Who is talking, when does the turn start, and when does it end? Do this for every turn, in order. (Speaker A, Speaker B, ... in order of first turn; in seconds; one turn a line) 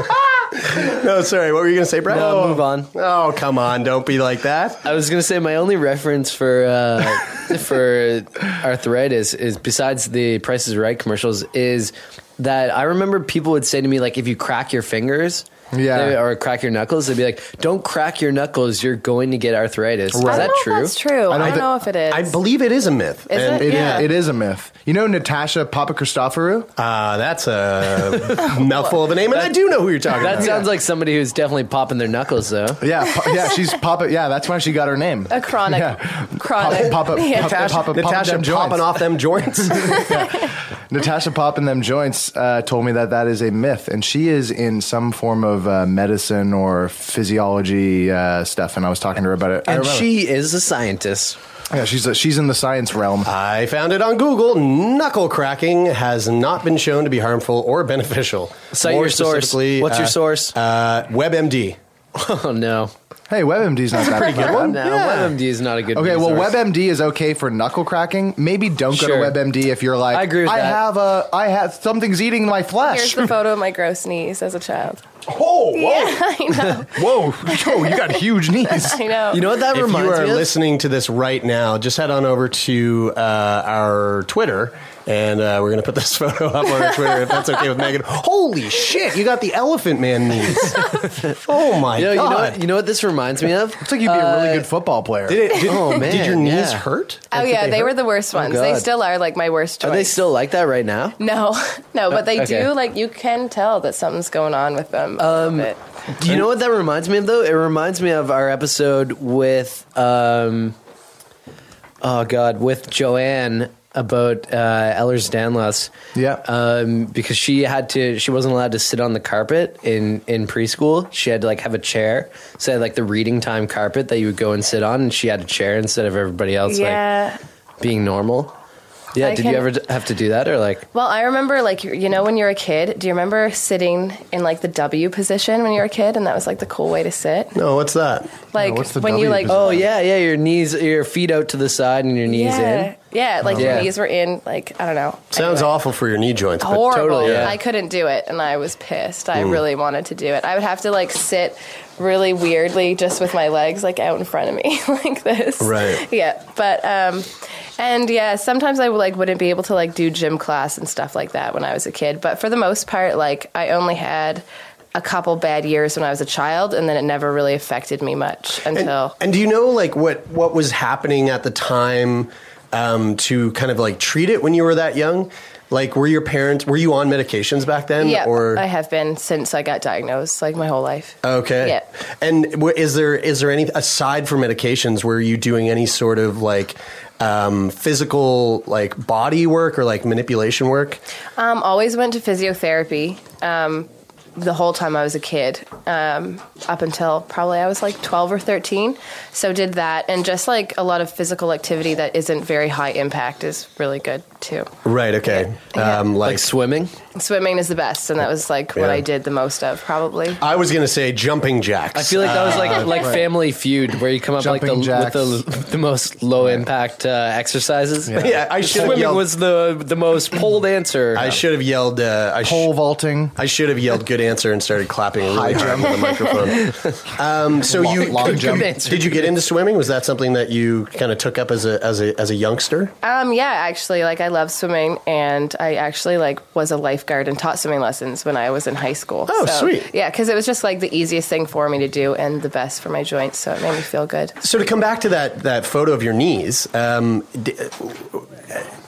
Speaker A: 0.6-4.8
Speaker B: 2.1-2.9
Speaker C: 2.1-2.6
Speaker B: 4.8-20.9
Speaker C: 15.7-16.2
Speaker C: 20.1-20.6
Speaker D: 20.2-22.4
Speaker C: 21.3-21.7
Speaker A: 21.4-24.1
Speaker D: 23.3-24.1
Speaker C: 23.6-26.7
Speaker A: 26.8-30.7
Speaker B: 30.1-32.8
Speaker C: 32.8-39.1
Speaker D: 35.3-37.7
Speaker A: 36.7-40.2
Speaker C: 39.6-50.1
Speaker B: 49.7-51.4
Speaker C: 51.7-53.3
Speaker A: 53.2-61.8
Speaker B: 58.7-60.5
Speaker B: 62.1-62.9
Speaker C: 63.3-65.3
Speaker A: 64.0-64.8
Speaker B: 64.3-66.6
Speaker C: 65.9-73.3
Speaker B: 68.9-69.4
Speaker B: 70.1-70.8
Speaker D: 72.8-75.0
Speaker C: 75.5-75.9
Speaker D: 75.7-79.5
Speaker C: 76.9-79.0
Speaker B: 79.3-80.5
Speaker A: 79.6-92.6
Speaker B: 91.9-94.7
Speaker C: 93.8-95.7
Speaker A: 95.3-97.6
Speaker B: 95.6-96.8
Speaker D: 97.3-100.2
Speaker B: 98.3-98.9
Speaker B: 99.8-101.2
Speaker D: 101.2-105.8
Speaker B: 102.1-102.7
Speaker B: 105.2-110.8
Speaker B: 112.0-127.0
Speaker C: 116.1-116.4
Speaker D: 126.7-127.4
Speaker B: 127.8-128.5
Speaker B: 129.1-130.8
Speaker D: 129.2-129.7
Speaker D: 130.9-137.6
Speaker A: 137.5-138.5
Speaker D: 138.5-139.6
Speaker C: 138.6-139.9
Speaker B: 139.4-142.9
Speaker D: 142.2-145.7
Speaker B: 143.5-143.9
Speaker A: 145.3-147.6
Speaker D: 146.6-169.2
Speaker B: 146.9-147.6
Speaker A: 149.3-149.6
Speaker A: 155.6-156.0
Speaker A: 168.8-178.6
Speaker D: 178.0-181.8
Speaker A: 181.2-191.0
Speaker D: 191.3-204.7
Speaker A: 204.8-206.5
Speaker D: 205.3-206.0
Speaker B: 206.2-206.9
Speaker D: 207.1-210.4
Speaker A: 208.8-209.0
Speaker A: 210.4-213.2
Speaker B: 211.9-221.4
Speaker C: 212.9-213.3
Speaker C: 214.4-215.4
Speaker C: 216.4-216.7
Speaker C: 218.1-219.0
Speaker A: 218.2-219.2
Speaker A: 221.1-222.7
Speaker C: 222.4-223.3
Speaker A: 223.3-232.9
Speaker C: 225.2-226.4
Speaker C: 227.6-229.0
Speaker B: 227.8-229.3
Speaker D: 233.0-244.4
Speaker A: 239.3-239.9
Speaker A: 244.4-248.6